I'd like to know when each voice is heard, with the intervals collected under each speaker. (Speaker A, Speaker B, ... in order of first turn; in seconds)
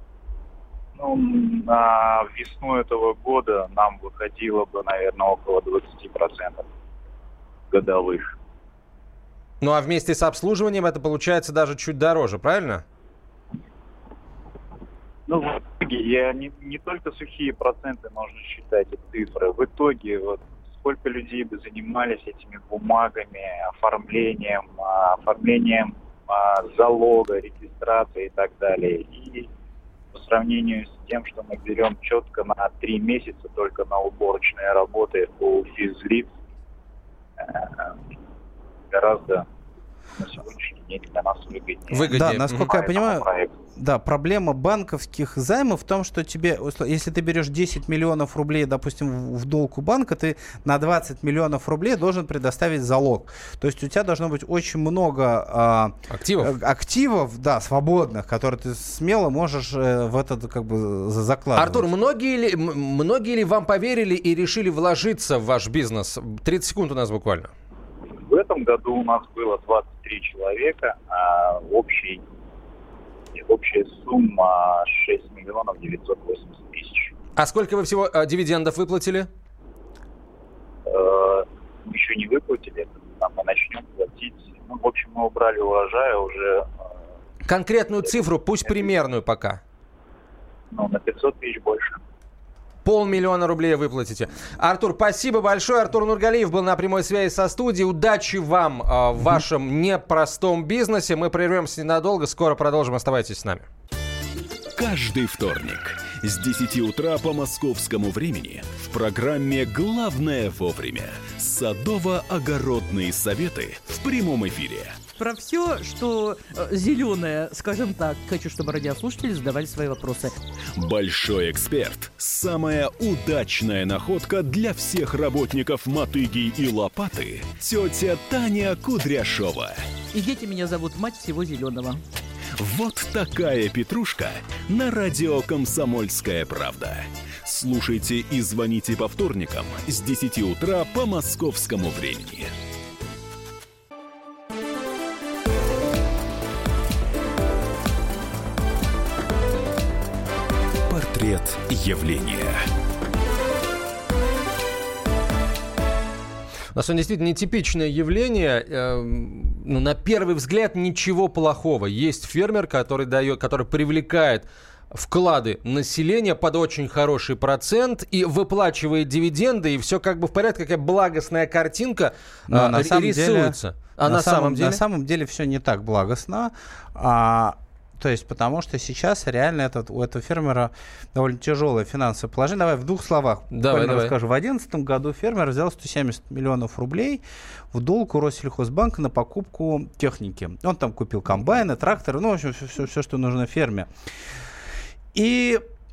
Speaker A: 1.0-6.7, 7.7-8.3, 15.3-29.5, 30.1-36.2, 37.4-38.0, 38.9-39.4, 40.1-42.1, 42.6-43.5, 68.2-72.2, 73.3-77.1, 80.9-86.7, 90.7-92.0
Speaker B: 9.6-12.8, 41.9-42.7, 56.1-56.5, 61.5-67.5, 77.3-79.3, 87.5-89.6, 92.8-103.7, 156.7-174.8, 183.5-184.1
Speaker C: 42.1-61.9, 172.5-193.9, 195.1-195.6
Speaker D: 104.8-115.0, 120.7-129.8, 132.6-142.5, 150.9-152.6
Speaker E: 115.2-120.4, 130.1-132.0